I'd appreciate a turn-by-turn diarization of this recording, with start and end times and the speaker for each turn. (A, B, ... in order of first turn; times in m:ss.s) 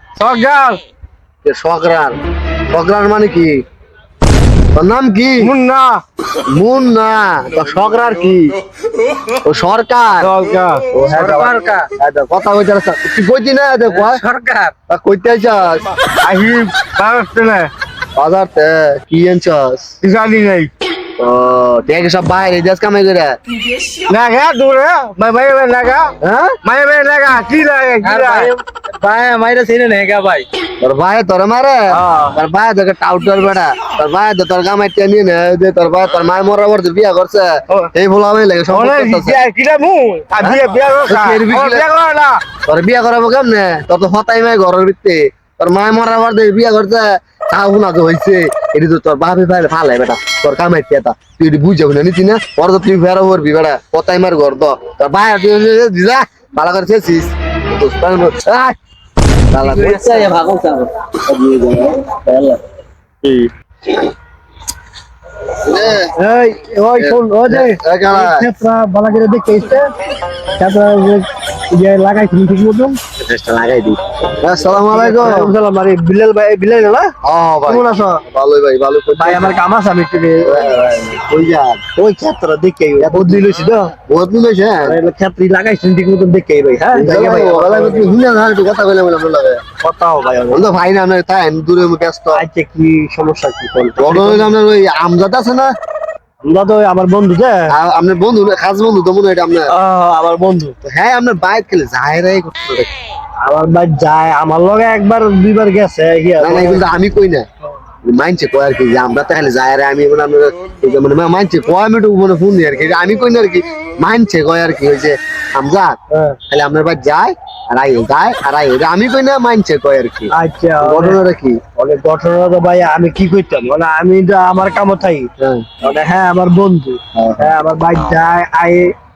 0:00.2-0:00.8 A
0:01.4-0:02.2 B
0:02.7-0:03.6 B
0:04.8-0:05.5 B
0:05.4-0:06.0 A
0:06.5-0:08.5 B
0:09.4-0:10.3 B
0:10.2-0:11.6 A
0:10.9-0:14.2 B
0:11.2-0:11.9 C
0:13.9-0:14.7 C
0:14.9-0:15.8 B
0:16.2-0:17.7 A
0:18.2-0:20.0 B
0:20.0-0:20.7 A
0:21.2-0:23.4 B
0:24.1-0:28.5 A
0:26.2-0:26.6 B
0:28.0-0:30.5 C
0:30.8-0:39.4 B
0:31.9-0:32.4 A
0:38.7-0:42.4 A
0:40.4-0:41.9 B
0:42.7-0:58.8 B
0:59.5-1:02.6 B
0:59.6-1:00.3 A
1:05.6-1:06.1 B
1:05.9-1:09.9 A
1:07.0-1:08.5 B
1:10.6-1:13.0 A
1:13.2-1:15.5 B
1:14.9-1:17.1 A
1:17.2-1:19.6 B
1:17.7-1:18.2 A
1:19.2-1:20.7 A
1:20.4-1:21.8 B
1:22.0-1:23.9 A
1:23.0-1:23.5 B
1:24.0-1:25.0 B
1:24.8-1:28.2 A
1:26.9-1:29.6 B
1:29.8-1:30.7 A
1:30.5-1:32.4 B
1:32.3-1:34.5 A
1:34.0-1:35.7 B
1:36.4-1:37.7 A
1:37.7-1:39.8 B
1:39.7-1:40.8 A
1:40.8-1:42.9 B
1:43.4-1:46.8 A
1:46.4-1:47.4 B
1:48.0-1:55.9 B
1:56.1-1:56.4 A
1:56.5-2:01.6 B
2:00.3-2:01.2 A
2:01.8-2:05.3 A
2:05.8-2:08.9 A
2:07.2-2:07.5 B